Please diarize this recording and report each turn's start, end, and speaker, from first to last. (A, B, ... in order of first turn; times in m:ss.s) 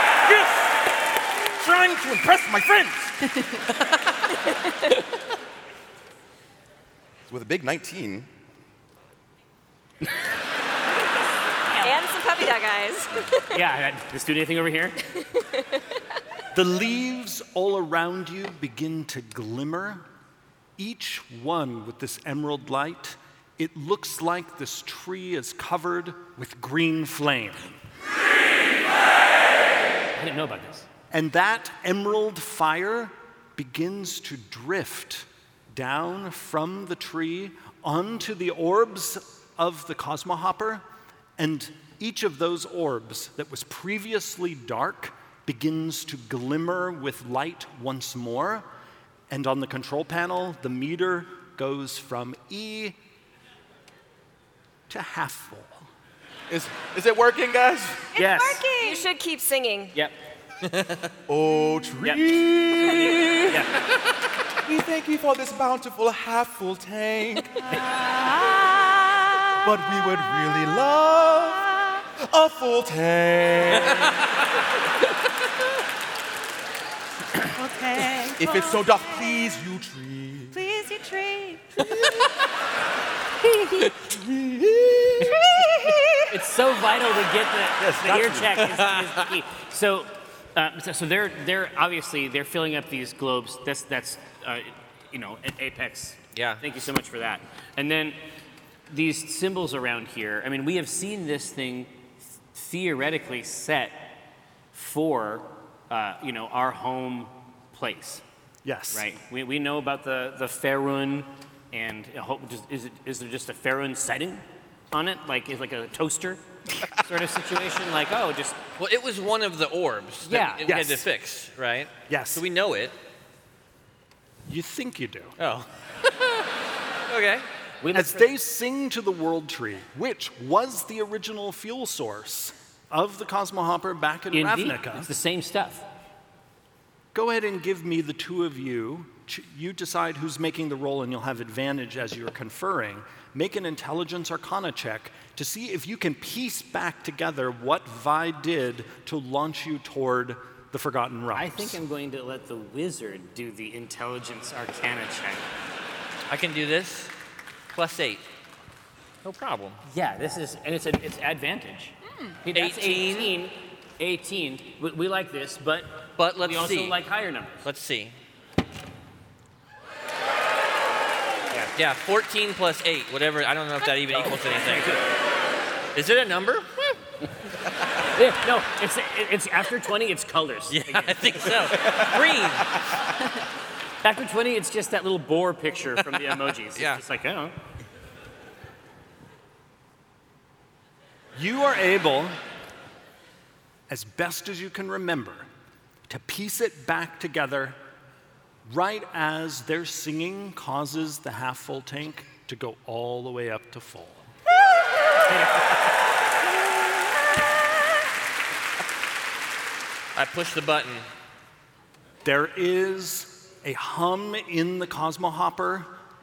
0:00.2-0:00.8 A
0:01.6-0:03.1 A
0:03.3-0:03.6 B
0:07.3-0:08.3 A
0:11.8-0:13.7 C
0:13.5-0:15.0 D
0:15.2-0:15.8 C
0:16.5-0:20.0 E
0:20.8-0:27.8 E
0:30.2-0:30.9 D
0:31.1-0:40.8 E
0:41.4-0:48.7 E
0:49.3-0:53.0 E
0:54.9-0:55.9 E
0:56.5-0:58.1 A
0:58.1-0:59.1 B
0:58.2-0:58.6 D
0:58.7-0:59.9 C
1:00.6-1:01.0 F
1:01.3-1:03.4 A
1:02.9-1:03.7 D
1:03.0-1:03.5 C
1:04.6-1:07.6 A
1:07.7-1:09.7 B
1:09.6-1:11.6 A
1:11.5-1:12.0 B
1:12.2-1:14.2 A
1:13.8-1:14.2 F
1:17.5-1:19.4 B
1:18.4-1:20.6 A
1:20.5-1:21.8 B
1:23.5-1:23.9 D
1:24.0-1:25.4 A
1:25.7-1:25.9 B
1:26.3-1:38.2 D
1:27.8-1:28.6 A
1:28.6-1:29.3 F
1:36.3-1:36.6 F
1:38.9-1:41.9 D
1:42.5-1:44.2 D
1:44.7-1:48.2 D
1:48.6-1:49.1 E
1:48.9-1:56.4 D
1:57.0-1:58.6 D
1:58.8-2:03.0 F
2:00.3-2:00.7 D
2:00.6-2:01.0 E
2:02.1-2:02.4 E
2:04.5-2:05.4 E
2:05.4-2:06.4 F
2:07.1-2:07.5 F
2:07.8-2:08.3 D
2:07.9-2:15.1 E
2:14.3-2:15.9 D
2:17.1-2:31.8 E
2:31.3-2:35.5 D
2:36.3-2:37.1 F
2:37.7-2:38.2 F
2:39.2-2:39.8 F
2:39.8-2:47.7 D
2:42.1-2:42.4 B
2:42.5-2:43.3 F
2:46.2-2:47.0 F
2:47.6-2:48.2 F
2:51.8-2:55.0 F
2:54.1-2:55.0 D
2:56.0-2:56.7 F
2:58.1-3:01.5 D
3:00.7-3:02.7 F
3:01.8-3:02.5 A
3:04.0-3:07.6 D
3:06.8-3:07.0 F
3:11.4-3:12.4 E
3:13.9-3:15.5 E
3:16.1-3:17.8 E
3:18.7-3:24.2 E
3:30.2-3:31.0 F
3:32.2-3:35.9 E